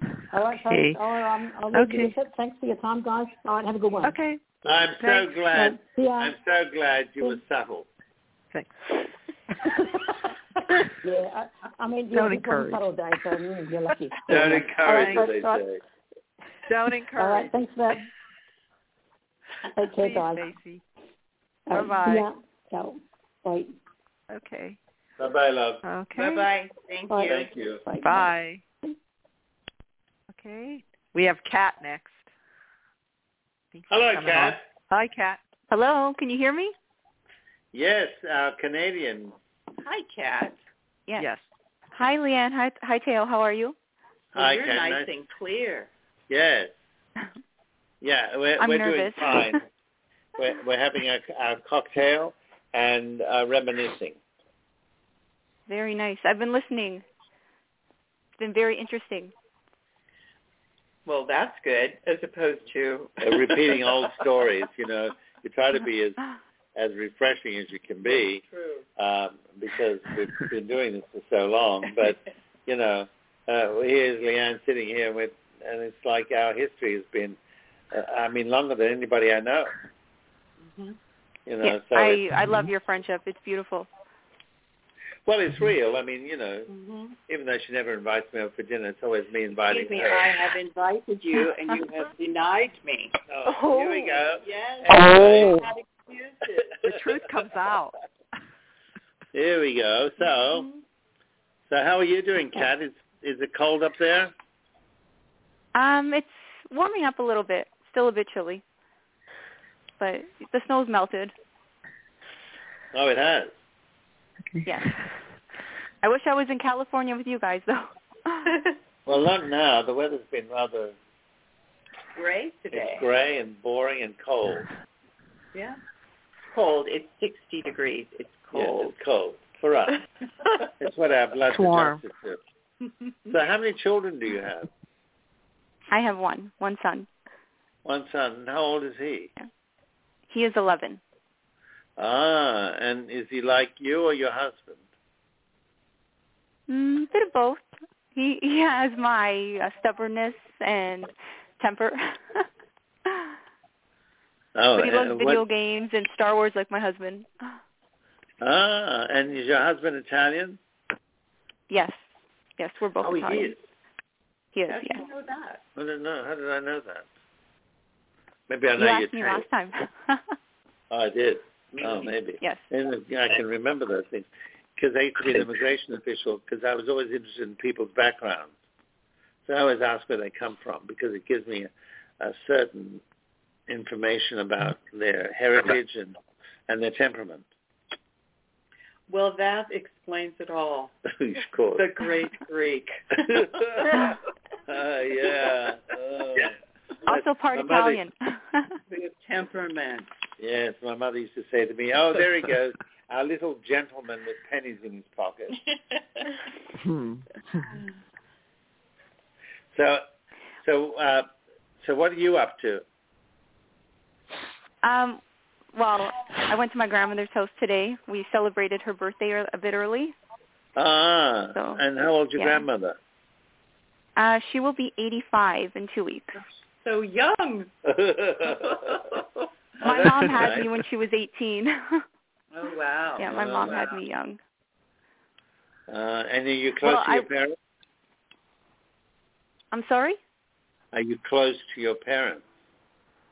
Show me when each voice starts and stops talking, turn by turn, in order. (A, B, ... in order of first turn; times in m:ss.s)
0:00.3-0:04.2 A
0:00.7-0:01.0 B
0:01.7-0:02.1 B
0:04.0-0:04.4 B
0:04.6-0:07.9 C
0:05.0-0:05.3 B
0:05.5-0:06.4 A
0:08.5-0:09.0 B
0:11.0-0:15.6 A
0:12.1-0:12.8 B
0:14.3-0:15.8 C
0:14.8-0:15.3 B
0:16.7-0:17.6 B
0:17.1-0:18.0 A
0:19.8-0:20.5 A
0:19.9-0:20.8 B
0:21.7-0:23.7 A
0:21.7-0:22.3 B
0:24.3-0:24.8 B
0:25.2-0:25.8 C
0:25.8-0:26.5 B
0:26.2-0:27.5 D
0:27.1-0:28.3 A
0:27.2-0:27.8 C
0:28.0-0:28.6 B
0:30.3-0:32.3 B
0:33.7-0:35.4 B
0:33.9-0:34.6 C
0:35.7-0:36.7 E
0:37.7-0:39.4 C
0:39.8-0:40.6 D
0:41.2-0:41.4 B
0:41.9-0:43.8 E
0:44.3-0:45.1 C
0:44.4-0:45.9 D
0:46.3-0:46.8 C
0:48.0-0:49.6 C
0:48.6-0:49.6 E
0:50.4-0:54.2 C
0:55.7-0:57.0 E
0:58.4-0:59.3 E
1:01.0-1:03.9 D
1:03.2-1:06.2 C
1:06.7-1:08.4 C
1:08.1-1:08.8 D
1:09.0-1:17.4 C
1:17.9-1:19.7 C
1:20.6-1:21.0 D
1:21.4-1:22.4 C
1:21.6-1:23.9 E
1:25.3-1:26.7 C
1:26.7-1:27.1 D
1:27.3-1:30.3 C
1:29.7-1:33.1 D
1:33.3-1:35.6 C
1:34.4-1:36.7 D
1:36.8-1:38.0 B
1:39.3-1:40.7 C
1:41.7-1:44.3 C
1:45.7-1:48.6 E
1:50.0-1:51.3 E
1:52.9-1:53.5 C
1:54.6-1:54.9 E
1:56.0-1:58.5 E
1:59.0-2:01.0 C
2:02.1-2:03.1 D
2:02.7-2:04.7 C
2:06.5-2:09.0 D
2:08.5-2:10.0 C
2:10.8-2:12.4 C
2:11.5-2:12.0 B
2:13.3-2:14.7 C
2:15.9-2:17.1 E
2:17.8-2:19.3 C
2:20.3-2:21.0 E
2:22.0-2:24.8 C
2:26.7-2:32.4 E
2:34.6-2:35.4 C
2:34.7-2:37.6 E
2:38.4-2:40.6 C
2:41.7-2:42.0 E
2:42.6-2:43.6 E
2:43.0-2:43.6 C
2:44.5-2:45.0 E
2:44.7-2:45.6 D
2:45.8-2:47.1 C
2:48.5-2:49.4 C
2:48.7-2:50.3 E
2:50.9-2:58.5 C
2:59.4-3:03.0 C
3:03.7-3:06.2 C
3:06.7-3:07.4 C
3:09.1-3:10.9 D
3:11.1-3:11.9 C
3:11.7-3:14.0 D
3:13.3-3:14.1 C
3:14.7-3:18.0 C
3:17.1-3:18.7 E
3:18.9-3:20.1 D
3:20.4-3:25.6 C
3:26.8-3:27.8 B
3:29.7-3:30.0 C
3:30.6-3:31.3 C
3:31.8-3:32.8 C
3:34.8-3:35.2 E
3:35.7-3:40.1 E
3:40.8-3:43.0 C
3:41.5-3:42.6 E
3:44.2-3:46.3 E
3:46.8-3:47.7 D
3:47.8-3:48.8 C
3:48.4-3:49.1 D
3:49.8-3:50.7 C
3:49.8-3:52.0 E
3:52.5-3:54.0 D
3:53.2-3:54.4 E
3:53.2-3:53.8 C
3:55.9-3:57.6 C
3:56.8-3:57.3 E
3:59.7-4:00.2 E
4:00.9-4:02.4 C